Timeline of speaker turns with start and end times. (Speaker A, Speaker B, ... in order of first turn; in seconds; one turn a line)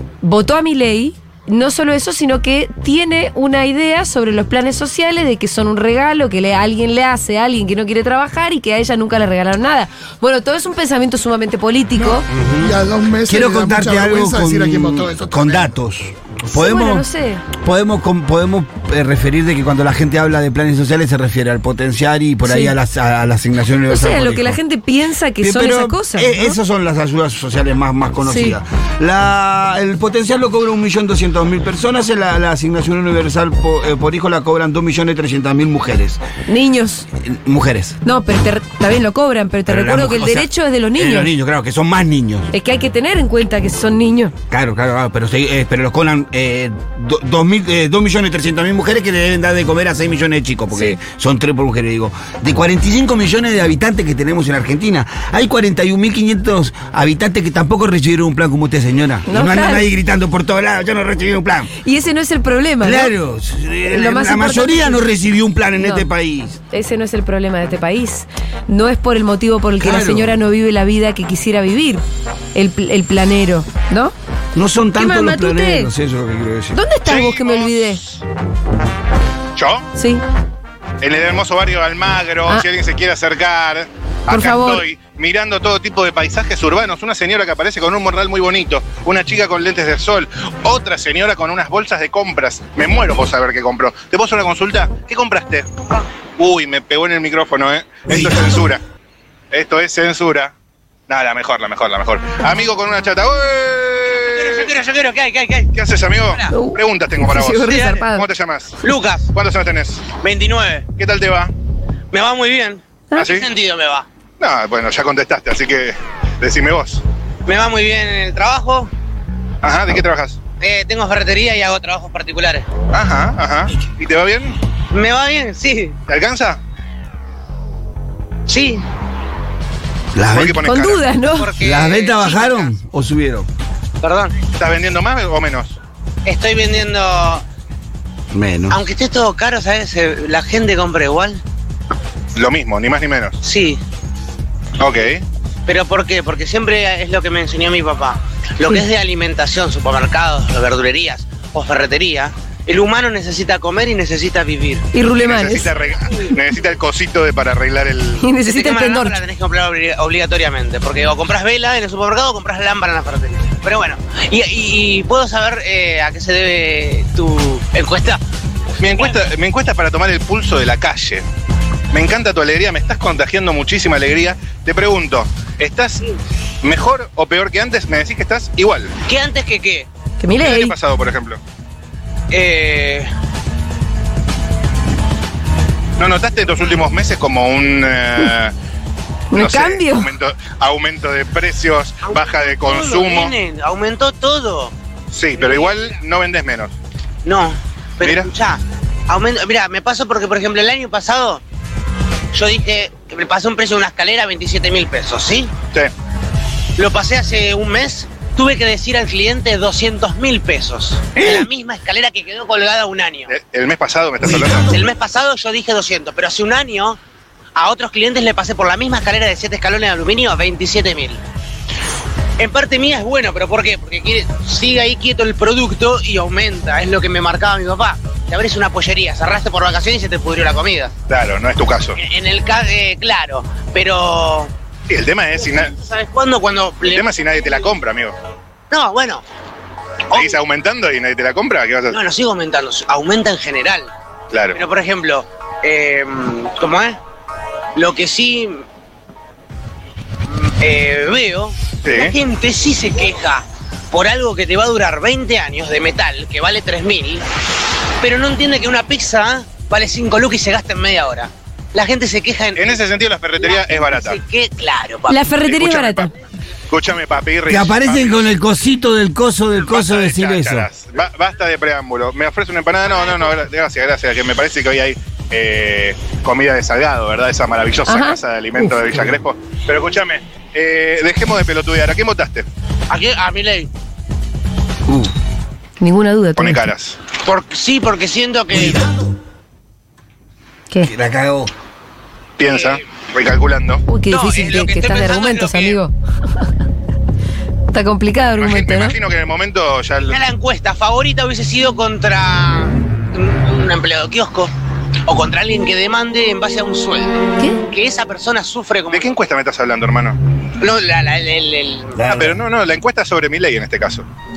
Speaker A: 0.2-12.3
Speaker B: 12.0-15.8
Speaker C: 12.3-12.7
Speaker C: 13.3-24.6
Speaker A: 16.5-17.4
Speaker A: 22.4-22.8
Speaker A: 23.9-26.6
Speaker C: 25.4-36.2
Speaker A: 28.2-28.6
Speaker A: 36.5-37.1
Speaker C: 37.2-38.0
Speaker A: 38.0-41.3
Speaker C: 39.7-42.5
Speaker A: 42.5-44.3
Speaker C: 44.5-61.7
Speaker A: 50.7-51.0
Speaker A: 59.3-59.9
Speaker A: 61.8-63.1
Speaker C: 62.8-66.6
Speaker A: 63.9-65.1
Speaker A: 65.8-66.1
Speaker A: 66.7-72.0
Speaker C: 69.8-70.4
Speaker A: 72.5-74.1
Speaker C: 74.5-76.8
Speaker A: 75.0-75.9
Speaker A: 76.8-78.0
Speaker D: 77.0-78.1
Speaker D: 79.5-79.9
Speaker A: 80.0-80.2
Speaker D: 81.0-95.7
Speaker A: 84.3-84.8
Speaker D: 96.4-98.8
Speaker E: 98.1-98.6
Speaker D: 99.5-100.5
Speaker D: 101.1-104.7
Speaker E: 104.1-106.5
Speaker D: 105.7-108.8
Speaker A: 106.5-108.3
Speaker E: 108.8-109.3
Speaker D: 109.3-110.1
Speaker E: 110.1-110.9
Speaker D: 111.0-111.5
Speaker E: 112.1-114.1
Speaker D: 113.2-113.5
Speaker D: 114.4-117.0
Speaker E: 117.5-118.9
Speaker D: 119.6-120.4
Speaker E: 120.6-122.7
Speaker D: 122.9-124.6
Speaker E: 124.9-126.0
Speaker D: 126.1-126.6
Speaker E: 128.5-128.8
Speaker C: 130.2-130.6
Speaker D: 130.3-131.1
Speaker A: 130.6-131.5
Speaker E: 131.3-132.7
Speaker C: 131.6-133.5
Speaker E: 134.0-134.4
Speaker D: 134.6-135.8
Speaker E: 136.2-137.4
Speaker C: 138.3-138.8
Speaker E: 138.7-141.4
Speaker D: 142.4-143.4
Speaker E: 143.4-143.8
Speaker D: 144.8-145.2
Speaker E: 145.7-154.9
Speaker A: 154.9-155.7
Speaker D: 155.0-158.3
Speaker A: 158.2-159.2
Speaker E: 158.4-168.2
Speaker D: 168.8-171.2
Speaker E: 169.0-169.2
Speaker D: 171.9-176.0
Speaker D: 176.6-178.9
Speaker E: 179.1-179.9
Speaker A: 180.2-180.8
Speaker D: 180.4-181.4
Speaker E: 182.3-183.1
Speaker D: 186.0-188.5
Speaker A: 189.3-190.1
Speaker D: 189.3-193.3
Speaker E: 192.0-194.7
Speaker D: 195.1-196.7
Speaker E: 195.4-196.0
Speaker E: 197.2-201.4
Speaker D: 198.0-198.3
Speaker E: 202.3-205.6
Speaker E: 206.8-213.3
Speaker D: 213.3-214.7
Speaker E: 214.2-217.0
Speaker E: 217.6-221.2
Speaker E: 222.4-230.9
Speaker D: 231.1-232.0
Speaker E: 232.0-234.5
Speaker D: 234.9-235.7
Speaker E: 235.4-237.8
Speaker D: 236.9-238.2
Speaker E: 238.7-239.2
Speaker E: 240.1-240.4
Speaker D: 240.1-242.0
Speaker E: 241.9-243.9
Speaker D: 244.3-244.6
Speaker E: 244.5-247.0
Speaker E: 247.8-248.6
Speaker E: 250.3-257.3
Speaker D: 251.8-252.2
Speaker E: 258.0-262.8
Speaker D: 262.6-264.2
Speaker E: 263.4-265.3
Speaker A: 265.1-266.1
Speaker D: 265.3-266.1
Speaker D: 266.7-268.3
Speaker C: 267.5-270.7
Speaker D: 269.6-282.5
Speaker A: 277.9-278.7
Speaker E: 282.9-283.7
Speaker A: 285.8-286.7
Speaker D: 286.4-287.0
Speaker E: 287.2-288.9
Speaker C: 290.8-291.5
Speaker D: 292.4-293.8
Speaker E: 292.4-292.8
Speaker A: 293.9-296.5
Speaker E: 294.1-295.8
Speaker A: 297.7-299.0
Speaker D: 298.3-300.2
Speaker E: 300.0-304.5
Speaker E: 305.1-309.2
Speaker D: 308.9-310.2
Speaker E: 310.6-312.4
Speaker C: 312.0-312.4
Speaker D: 312.1-314.1